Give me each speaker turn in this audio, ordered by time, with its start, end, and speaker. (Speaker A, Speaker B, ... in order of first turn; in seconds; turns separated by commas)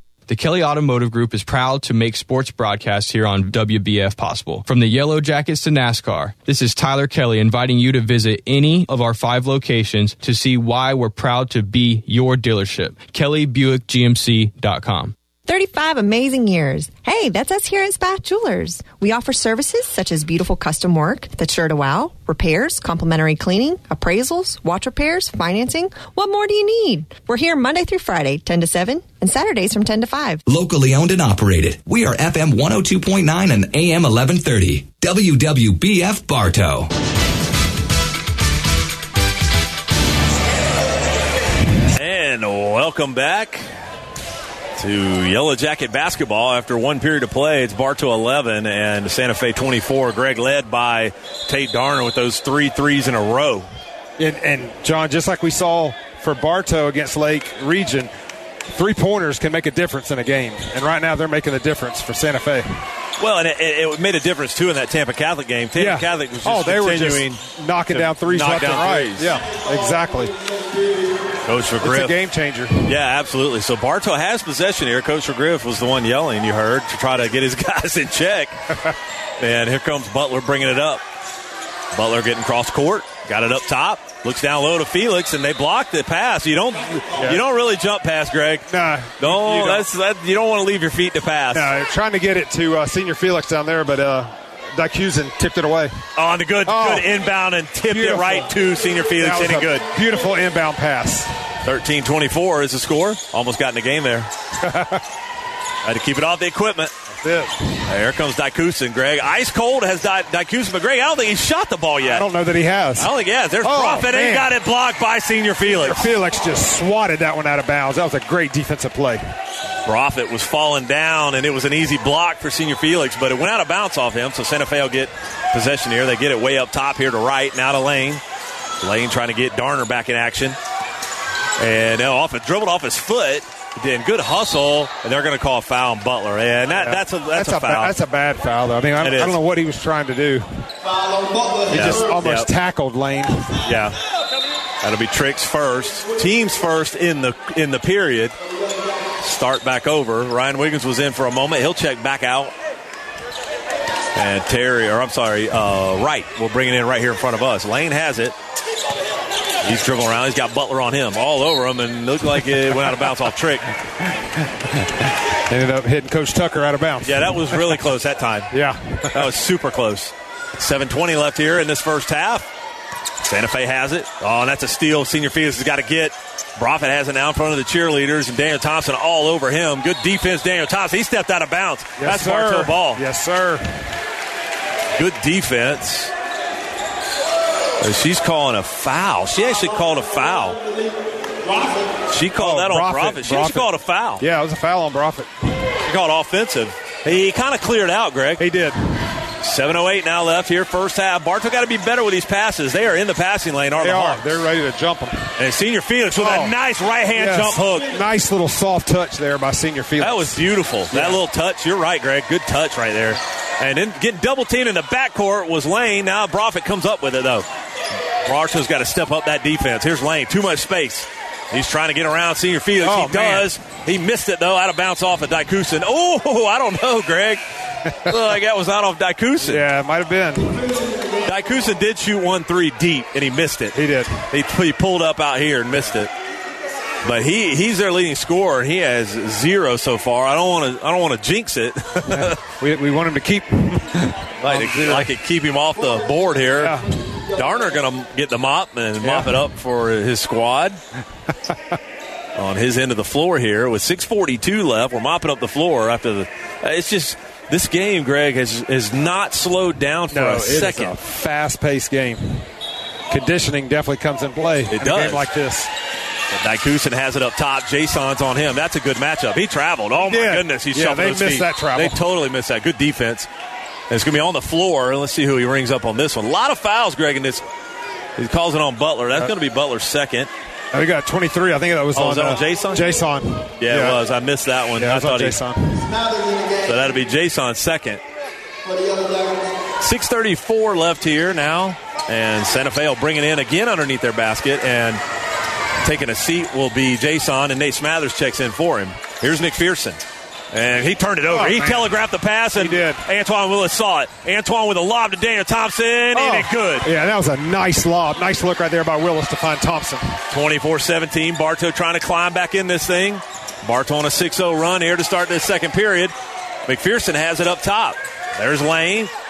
Speaker A: 0.3-15.1, Speaker B: 15.4-30.4, Speaker C: 30.4-36.9, Speaker D: 41.9-43.7, Speaker D: 44.8-53.7, Speaker E: 54.2-58.1, Speaker E: 58.7-62.8, Speaker D: 63.2-69.4, Speaker E: 65.7-70.4, Speaker D: 71.4-72.1, Speaker E: 71.8-73.0, Speaker D: 72.8-78.6, Speaker D: 79.4-81.0, Speaker D: 81.9-91.7, Speaker E: 87.2-87.4, Speaker E: 88.7-89.9, Speaker E: 91.5-96.0, Speaker D: 96.1-99.9, Speaker E: 96.6-97.1, Speaker E: 97.9-98.5, Speaker E: 99.2-101.3, Speaker D: 101.6-104.3, Speaker E: 104.6-105.0, Speaker D: 105.8-106.9, Speaker E: 107.2-107.8, Speaker D: 107.8-112.3, Speaker E: 112.0-113.1, Speaker D: 113.0-116.1, Speaker E: 113.6-114.5, Speaker E: 115.6-119.2, Speaker D: 119.8-128.2, Speaker D: 128.8-130.6, Speaker D: 131.6-137.9, Speaker E: 136.7-140.6, Speaker D: 139.0-139.4, Speaker E: 141.7-143.6, Speaker D: 141.7-142.5, Speaker D: 143.6-143.9, Speaker D: 144.8-148.3, Speaker D: 149.2-152.5, Speaker D: 154.1-158.3, Speaker D: 159.6-163.7, Speaker E: 165.5-167.8, Speaker D: 167.0-168.5, Speaker E: 168.5-169.3, Speaker D: 169.1-172.5, Speaker D: 173.2-183.0, Speaker E: 182.0-183.7, Speaker D: 184.9-186.1, Speaker D: 187.8-190.6, Speaker D: 192.1-194.2, Speaker E: 192.3-195.3, Speaker D: 195.8-198.4, Speaker E: 198.4-199.1, Speaker D: 199.4-204.2, Speaker E: 203.8-205.3, Speaker D: 205.4-207.9, Speaker E: 206.1-206.5, Speaker E: 207.1-210.4, Speaker D: 210.0-217.5, Speaker E: 210.9-211.2, Speaker D: 218.2-227.4, Speaker E: 222.8-223.5, Speaker D: 228.0-229.6, Speaker E: 229.4-230.7, Speaker D: 231.2-236.1, Speaker E: 233.7-234.2, Speaker D: 237.0-242.4, Speaker E: 242.1-245.1, Speaker D: 244.4-250.8, Speaker E: 246.6-246.9, Speaker E: 249.0-249.4, Speaker E: 251.4-251.8, Speaker D: 252.3-261.0, Speaker E: 260.1-262.5, Speaker E: 263.1-265.7, Speaker D: 264.7-265.3, Speaker D: 266.3-273.3, Speaker E: 270.0-272.0, Speaker D: 273.9-277.4, Speaker D: 278.1-280.3, Speaker E: 280.7-284.0, Speaker D: 281.9-282.9, Speaker D: 283.6-285.4, Speaker E: 284.8-285.9, Speaker D: 286.6-288.0, Speaker D: 289.8-295.0, Speaker D: 295.8-306.9, Speaker E: 301.3-302.0, Speaker E: 302.5-303.0, Speaker E: 306.1-310.2, Speaker D: 310.3-316.1, Speaker D: 316.6-319.1